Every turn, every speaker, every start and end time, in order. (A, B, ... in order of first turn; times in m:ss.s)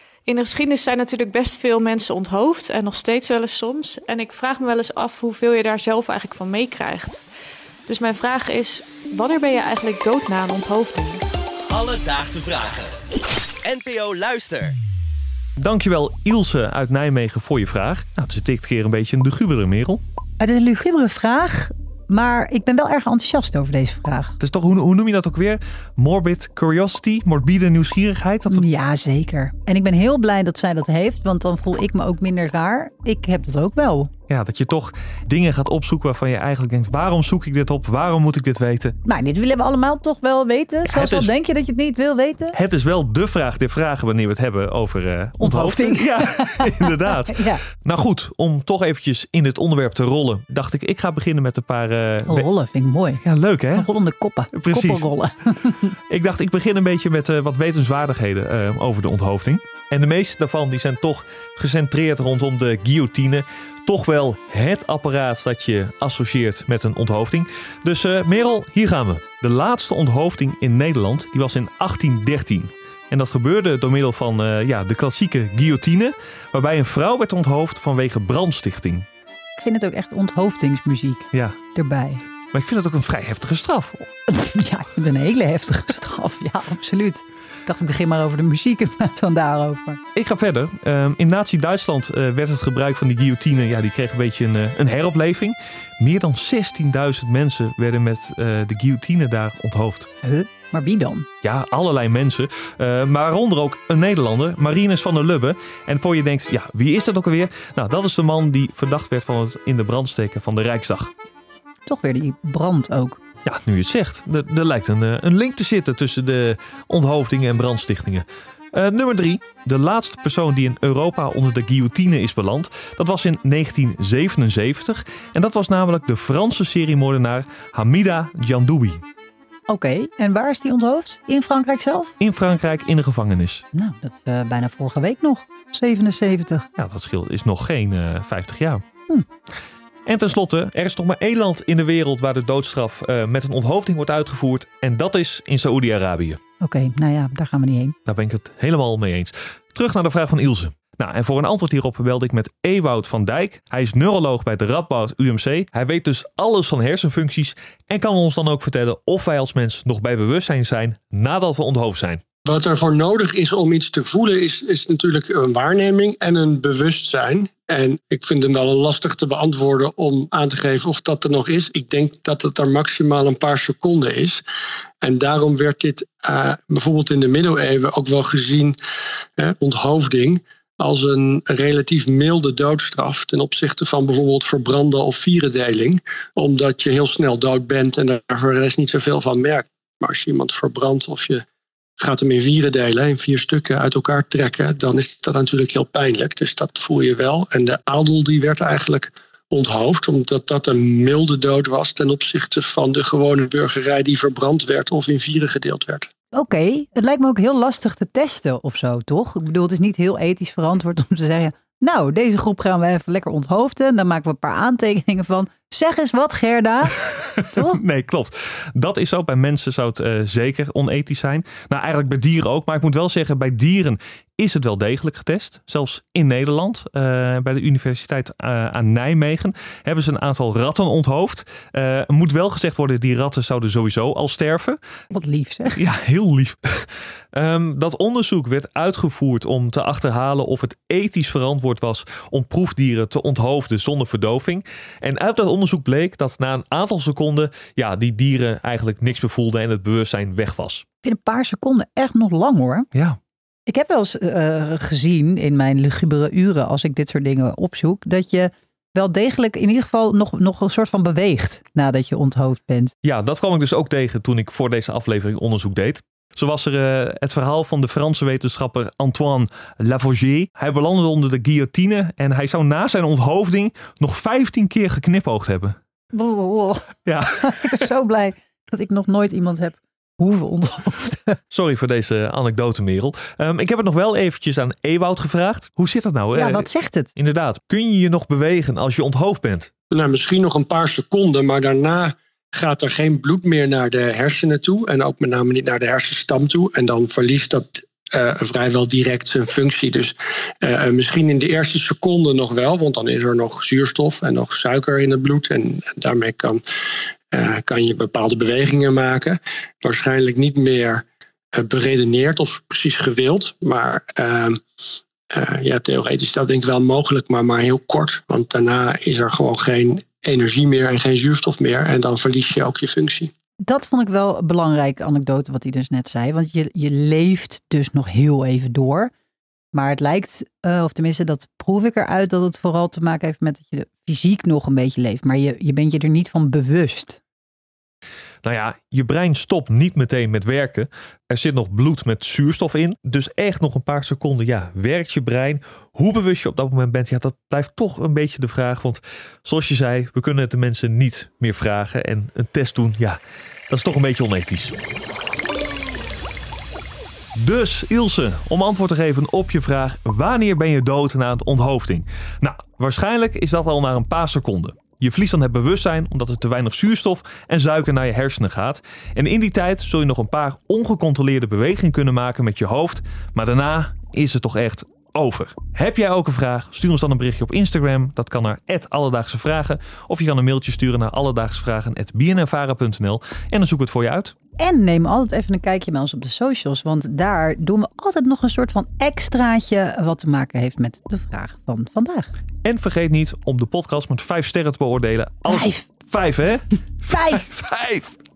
0:00.2-0:07.2 A
0:07.9-0:11.2 A
0:11.7-0:12.9 B
0:13.6-0:14.8 B
0:15.6-0:20.0 C
0:20.4-0:24.4 D
0:24.4-0:28.7 C
0:28.5-0:34.1 D
0:34.3-0:38.9 C
0:39.0-0:42.6 D
0:40.8-0:41.3 C
0:42.5-0:52.5 C
0:45.4-0:47.6 D
0:52.3-0:55.9 D
0:53.2-0:53.9 C
0:54.5-0:55.1 C
0:56.1-1:19.0 C
1:19.6-1:22.2 D
1:21.3-1:21.6 C
1:22.5-1:24.1 C
1:24.3-1:30.0 D
1:30.1-1:40.1 C
1:40.2-1:41.3 D
1:41.4-1:51.1 C
1:51.8-1:53.2 D
1:53.4-2:09.0 C
2:09.7-2:12.1 D
2:12.2-2:13.6 C
2:13.7-2:16.7 D
2:16.8-2:18.8 C
2:20.1-2:26.4 C
2:26.6-2:28.0 D
2:28.1-2:42.2 C
2:42.4-2:54.4 E
2:55.0-2:58.8 E
2:59.4-3:11.4 E
3:12.0-3:26.1 E
3:26.3-3:37.8 D
3:37.0-3:54.8 C
3:55.1-3:55.8 D
3:55.7-4:10.8 C
4:11.0-4:12.9 D
4:13.7-4:22.9 D
4:23.0-4:35.8 C
4:36.1-4:41.4 D
4:37.0-4:37.8 C
4:41.5-4:49.7 C
4:46.3-4:47.1 D
4:49.9-5:06.6 E
5:07.3-5:14.6 E
5:15.3-5:23.3 E
5:23.6-5:29.1 D
5:29.7-5:37.2 D
5:38.4-5:53.2 C
5:53.7-5:54.8 C
5:57.3-6:24.3 C
6:24.6-6:32.3 D
6:32.6-6:38.2 C
6:35.5-6:35.9 D
6:37.1-6:37.4 D